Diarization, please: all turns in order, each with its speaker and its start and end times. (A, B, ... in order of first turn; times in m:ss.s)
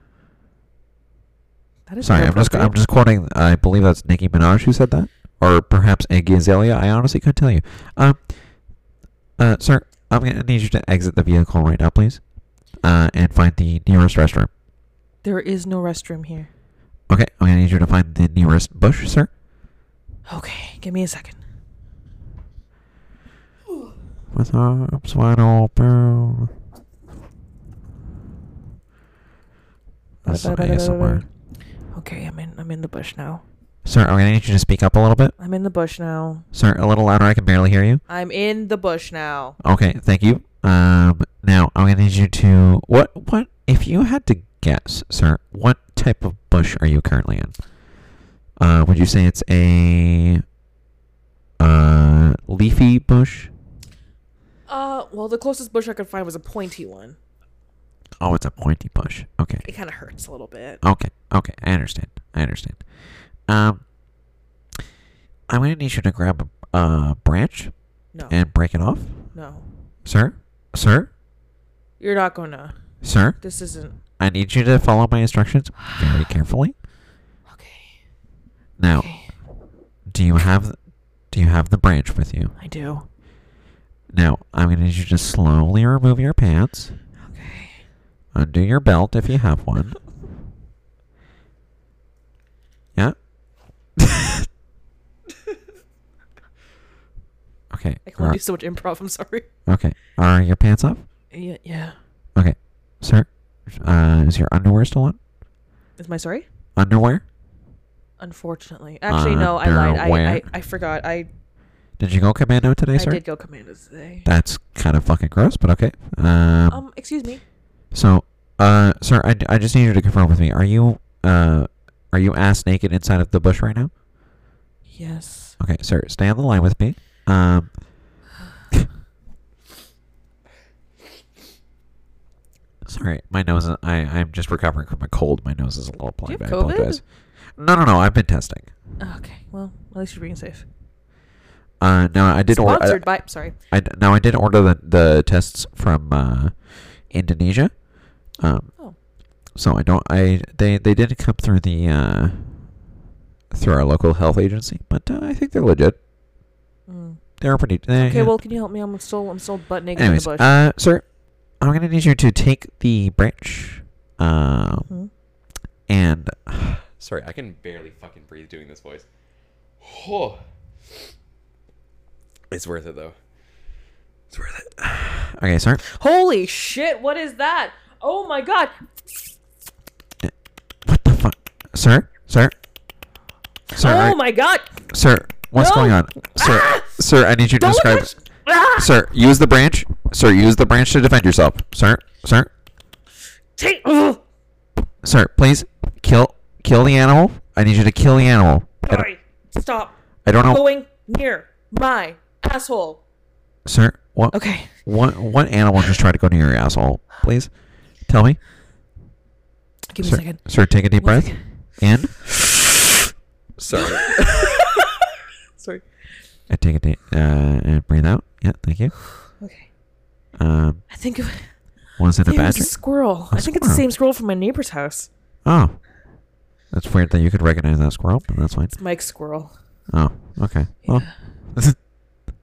0:01.9-0:02.8 A
0:02.0-0:08.3 B
0:09.4-0:12.2 B
0:12.8-0:14.5 B
0:15.2-0:16.5 A
0:17.1-0:19.3 B
0:20.3-0:21.4 A
0:24.3-0:26.5 B
0:30.2-0:31.2 B
0:30.2-0:31.3 A
0:31.9-0:33.4 A
0:33.8-0:35.3 B
0:35.4-0:36.4 A
0:36.5-0:38.0 B
0:38.1-0:39.6 A
0:39.6-0:47.6 B
0:48.6-0:50.4 B
0:51.6-0:53.5 B
0:54.7-0:57.2 A
0:58.2-0:59.7 B
0:59.6-1:00.8 A
1:00.8-1:02.8 B
1:03.5-1:03.8 B
1:05.5-1:07.7 B
1:08.3-1:09.3 B
1:09.3-1:09.6 A
1:10.0-1:11.1 B
1:12.0-1:12.7 A
1:13.0-1:13.4 B
1:13.4-1:14.0 A
1:14.2-1:16.7 B
1:15.8-1:16.3 A
1:17.5-1:18.0 A
1:18.8-1:19.1 B
1:19.0-1:19.3 A
1:20.1-1:20.8 B
1:21.3-1:22.5 B
1:22.6-1:23.0 A
1:24.1-1:26.9 B
1:27.3-1:27.8 A
1:28.3-1:30.0 B
1:34.0-1:34.4 B
1:37.7-1:38.4 B
1:38.0-1:39.5 A
1:39.7-1:41.0 B
1:41.3-1:42.0 A
1:42.4-1:45.2 B
1:46.0-1:46.4 A
1:46.8-1:47.2 B
1:48.2-1:51.3 A
1:49.1-1:50.4 B
1:52.0-1:53.2 B
1:53.0-1:54.3 A
1:54.3-1:56.8 B
1:56.7-1:57.4 A
1:57.9-2:03.9 B
2:04.9-2:05.6 A
2:05.6-2:07.7 B
2:12.8-2:17.0 B
2:16.2-2:17.0 A
2:17.6-2:18.7 B
2:19.0-2:20.7 A
2:21.8-2:27.7 B
2:22.5-2:23.6 A
2:28.4-2:28.7 B
2:29.6-2:32.8 B
2:33.5-2:36.0 B
2:36.9-2:37.2 A
2:37.4-2:38.3 B
2:38.0-2:40.5 A
2:40.0-2:41.0 B
2:41.6-2:44.9 B
2:45.9-2:46.8 B
2:47.0-2:49.1 C
2:49.8-2:50.4 C
2:52.5-2:53.2 C
2:54.3-2:55.1 C
2:55.1-2:55.8 B
2:55.8-2:58.7 A
3:00.9-3:02.5 B
3:03.7-3:04.7 A
3:03.7-3:04.2 B
3:04.9-3:08.1 B
3:05.6-3:06.9 A
3:07.6-3:08.9 A
3:08.8-3:12.5 B
3:13.6-3:14.2 A
3:15.0-3:19.0 B
3:18.8-3:23.0 A
3:20.2-3:20.6 B
3:23.7-3:27.5 B
3:24.3-3:24.7 A
3:28.1-3:28.4 B
3:29.9-3:30.4 A
3:30.0-3:32.3 B
3:31.0-3:31.4 A
3:33.6-3:34.7 C
3:33.7-3:35.0 A
3:35.6-3:35.8 A
3:36.5-3:39.0 B
3:39.2-3:39.7 A
3:40.4-3:40.8 B
3:40.9-3:41.5 A
3:42.0-3:43.8 B
3:42.2-3:45.1 A
3:45.4-3:45.8 B
3:46.7-3:48.7 B
3:48.7-3:49.5 A
3:49.9-3:51.8 B
3:50.8-3:51.1 A